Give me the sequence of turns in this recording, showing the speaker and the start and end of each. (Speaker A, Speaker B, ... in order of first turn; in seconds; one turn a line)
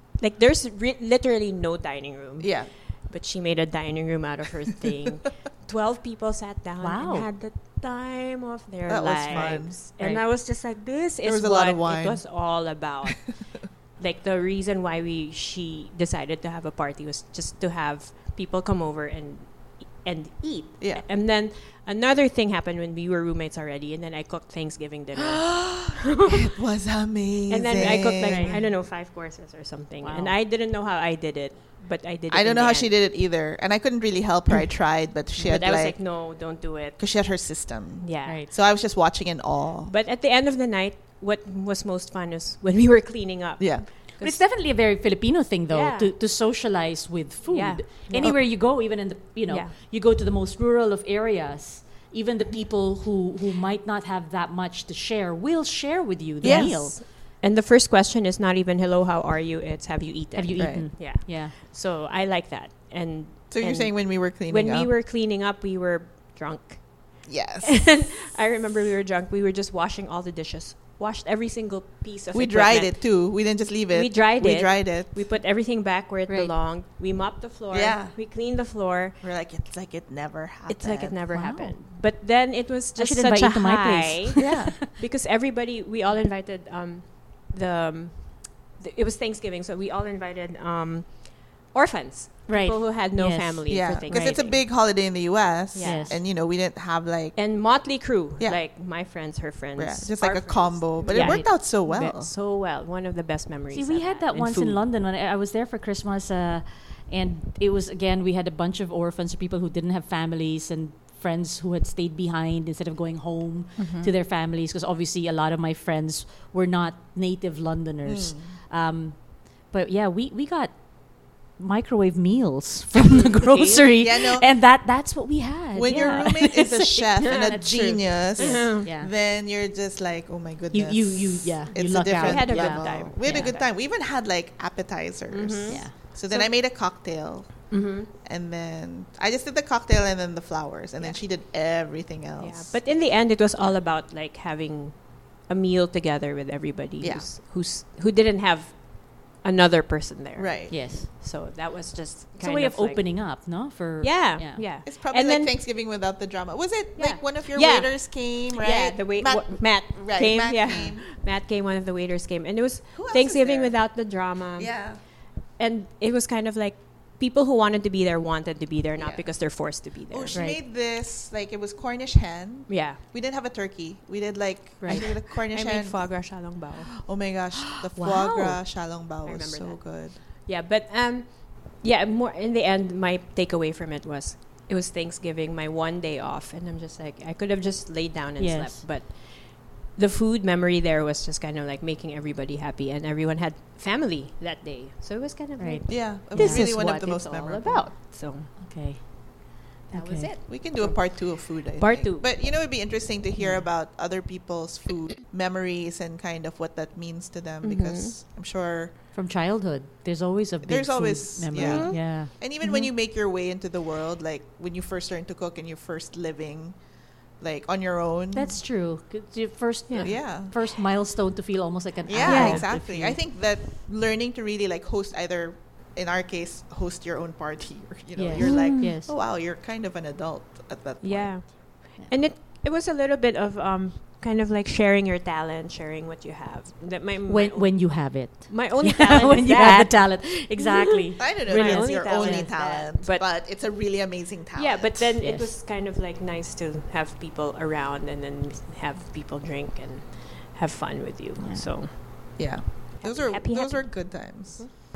Speaker A: 0.2-26.4
Speaker B: 2.4-2.7
Speaker C: 6.8-7.3
Speaker B: 8.9-9.9
Speaker C: 9.3-10.2
Speaker B: 11.2-12.3
Speaker B: 20.8-21.1
Speaker B: 25.1-28.6
Speaker A: 27.5-32.9
Speaker C: 27.8-28.6
Speaker C: 30.0-30.4
Speaker B: 32.3-36.4
Speaker A: 35.3-37.2
Speaker B: 37.0-39.9
Speaker A: 38.0-38.4
Speaker C: 38.3-38.5
Speaker A: 39.9-44.5
Speaker B: 43.6-43.9
Speaker C: 44.2-57.0
Speaker A: 45.7-46.2
Speaker A: 47.5-48.9
Speaker A: 49.5-49.7
Speaker B: 56.4-57.0
Speaker A: 56.4-79.2
Speaker C: 60.3-61.5
Speaker B: 60.5-60.9
Speaker B: 63.5-64.9
Speaker B: 67.2-68.0
Speaker B: 72.3-75.3
Speaker C: 76.3-76.5
Speaker B: 77.7-78.2
Speaker B: 79.2-81.2
Speaker A: 80.7-94.6
Speaker C: 81.3-81.8
Speaker C: 83.0-84.7
Speaker B: 84.4-84.8
Speaker C: 92.5-94.4
Speaker B: 93.7-97.7
Speaker A: 95.7-96.1
Speaker C: 95.8-96.2
Speaker A: 97.3-104.8
Speaker B: 99.8-102.3
Speaker C: 101.1-101.5
Speaker C: 103.7-129.1
Speaker B: 113.8-114.1
Speaker B: 118.0-118.6
Speaker A: 122.9-123.9
Speaker B: 124.0-124.5
Speaker B: 125.7-142.8
Speaker A: 125.8-126.3
Speaker A: 127.2-127.6
Speaker A: 128.4-128.9
Speaker C: 130.7-133.6
Speaker A: 132.2-133.7
Speaker A: 135.3-136.5
Speaker C: 135.7-135.9
Speaker A: 137.7-138.1
Speaker A: 142.4-153.5
Speaker B: 147.0-147.3
Speaker B: 150.3-150.8
Speaker C: 150.7-151.1
Speaker C: 152.4-154.6
Speaker A: 154.0-155.5
Speaker B: 154.6-161.1
Speaker A: 156.9-170.4
Speaker B: 162.9-163.9
Speaker B: 164.6-165.0
Speaker B: 168.9-180.2
Speaker C: 170.3-170.6
Speaker A: 172.7-173.0
Speaker C: 174.8-175.1
Speaker A: 174.8-176.9
Speaker C: 177.9-178.6
Speaker A: 179.2-198.5
Speaker C: 188.4-188.8
Speaker C: 195.6-196.8
Speaker B: 195.9-197.9
Speaker C: 198.6-200.3
Speaker A: 199.9-202.2
Speaker B: 200.4-208.9
Speaker C: 203.3-203.7
Speaker A: 207.6-208.2
Speaker C: 209.1-212.3
Speaker B: 210.6-216.8
Speaker A: 211.5-212.1
Speaker A: 212.6-212.9
Speaker B: 217.4-218.6
Speaker C: 218.3-223.2
Speaker A: 219.9-220.1
Speaker B: 220.0-220.6
Speaker B: 222.1-231.6
Speaker A: 222.2-222.7
Speaker C: 228.1-229.1
Speaker A: 228.4-228.7
Speaker A: 231.0-240.8
Speaker C: 237.3-242.5
Speaker B: 241.2-245.1
Speaker A: 241.5-243.3
Speaker A: 244.5-254.7
Speaker C: 245.2-245.5
Speaker C: 251.4-251.7
Speaker B: 252.3-254.6